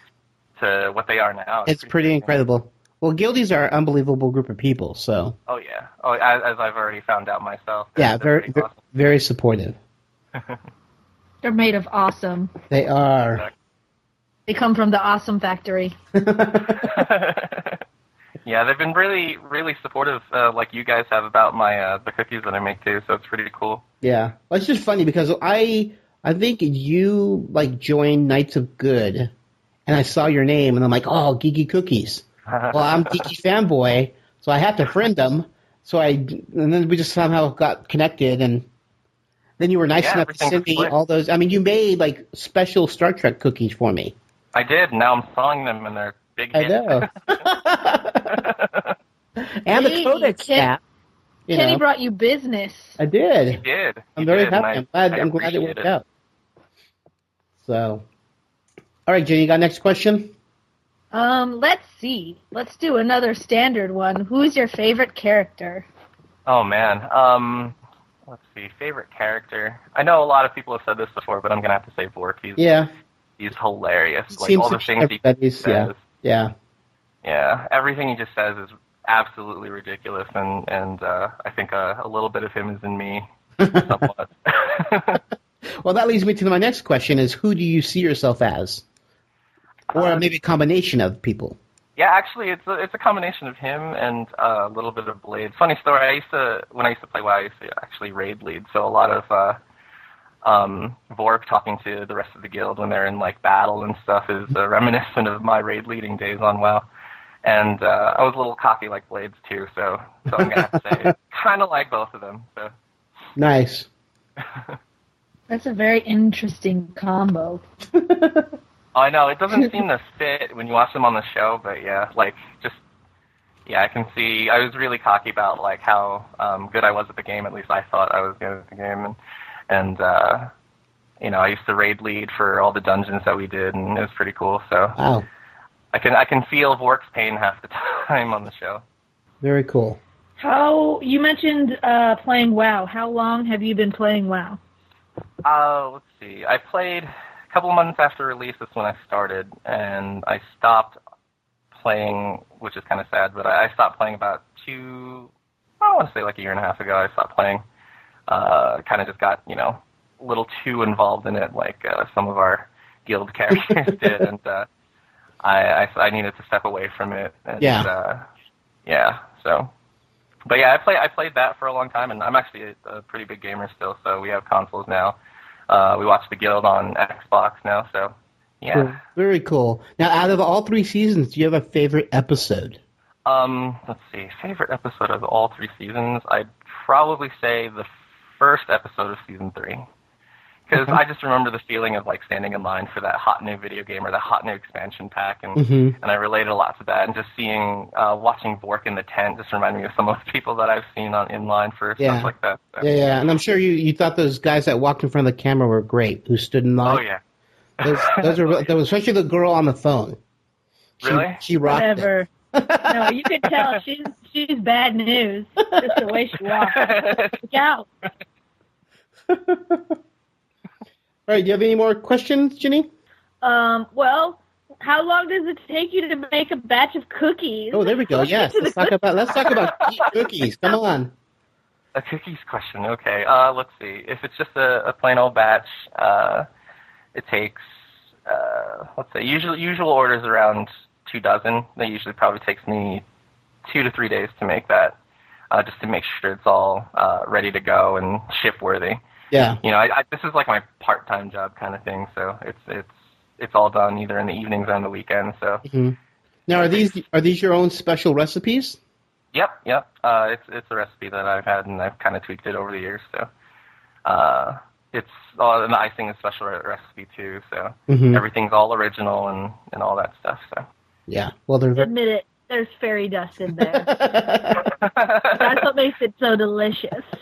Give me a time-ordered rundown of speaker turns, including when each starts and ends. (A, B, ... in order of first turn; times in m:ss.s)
0:00.6-0:02.3 A
0:01.7-0:05.4 B
0:05.5-0:08.8 A
0:08.0-0:09.8 B
0:11.4-0:12.5 C
0:12.7-0:13.5 B
0:14.5-0:16.0 C
0:16.1-0:16.9 B
0:16.8-0:17.8 A
0:18.4-0:23.8 A
0:24.0-0:29.3 B
0:29.9-0:38.7 B
0:32.5-0:33.2 A
0:39.6-0:44.2 B
0:40.0-0:40.9 A
0:44.5-0:47.4 A
0:46.5-0:48.4 B
0:48.3-0:49.0 A
0:49.6-0:50.8 B
0:49.7-0:50.7 C
0:51.5-0:51.8 B
0:51.5-0:53.0 C
0:53.0-0:53.6 B
0:53.5-0:55.9 A
0:54.2-0:56.0 B
0:57.6-0:58.0 B
0:59.1-1:00.3 B
1:01.1-1:05.9 C
1:06.5-1:07.8 A
1:08.3-1:12.7 A
1:12.6-1:12.9 B
1:13.4-1:16.0 A
1:14.3-1:16.5 B
1:17.2-1:23.3 A
1:23.6-1:24.0 B
1:23.8-1:25.2 A
1:25.8-1:28.8 B
1:29.9-1:30.2 A
1:29.9-1:31.6 B
1:32.0-1:39.6 A
1:40.4-1:46.9 A
1:47.4-1:52.7 A
1:50.3-1:51.1 B
1:53.4-1:53.9 B
1:55.5-1:57.6 C
1:58.0-1:58.5 B
1:59.0-2:02.8 A
2:03.7-2:09.2 A
2:09.7-2:10.5 A
2:11.2-2:15.0 A
2:15.0-2:15.3 B
2:15.9-2:18.8 A
2:19.4-2:20.0 B
2:20.4-2:24.6 C
2:25.4-2:31.0 A
2:31.8-2:35.3 A
2:35.8-2:37.6 A
2:38.3-2:44.7 A
2:45.4-2:48.2 A
2:47.6-2:47.9 B
2:48.9-2:49.7 A
2:50.5-2:55.2 A
2:55.7-2:59.0 A
2:58.7-3:02.8 B
3:03.3-3:09.9 A
3:10.7-3:22.9 A
3:10.7-3:11.0 B
3:15.6-3:16.0 B
3:22.0-3:27.0 B
3:26.8-3:27.2 A
3:27.8-3:28.7 A
3:27.8-3:30.2 B
3:31.0-3:33.2 B
3:31.0-3:31.4 A
3:31.6-3:32.3 C
3:32.9-3:37.9 C
3:36.7-3:37.4 A
3:39.3-3:39.9 B
3:41.3-3:42.9 B
3:43.4-3:49.5 C
3:47.7-3:51.1 B
3:52.0-3:56.5 A
3:57.2-3:57.6 A
3:58.3-4:03.0 A
4:03.7-4:05.0 A
4:05.5-4:09.0 A
4:09.3-4:09.6 B
4:09.6-4:15.6 A
4:15.6-4:16.0 B
4:16.5-4:18.8 B
4:16.5-4:17.0 A
4:19.3-4:23.3 A
4:24.0-4:30.6 A
4:27.9-4:28.2 B
4:31.1-4:31.9 B
4:31.8-4:33.9 C
4:33.5-4:34.6 B
4:34.8-4:35.3 A
4:35.3-4:37.1 C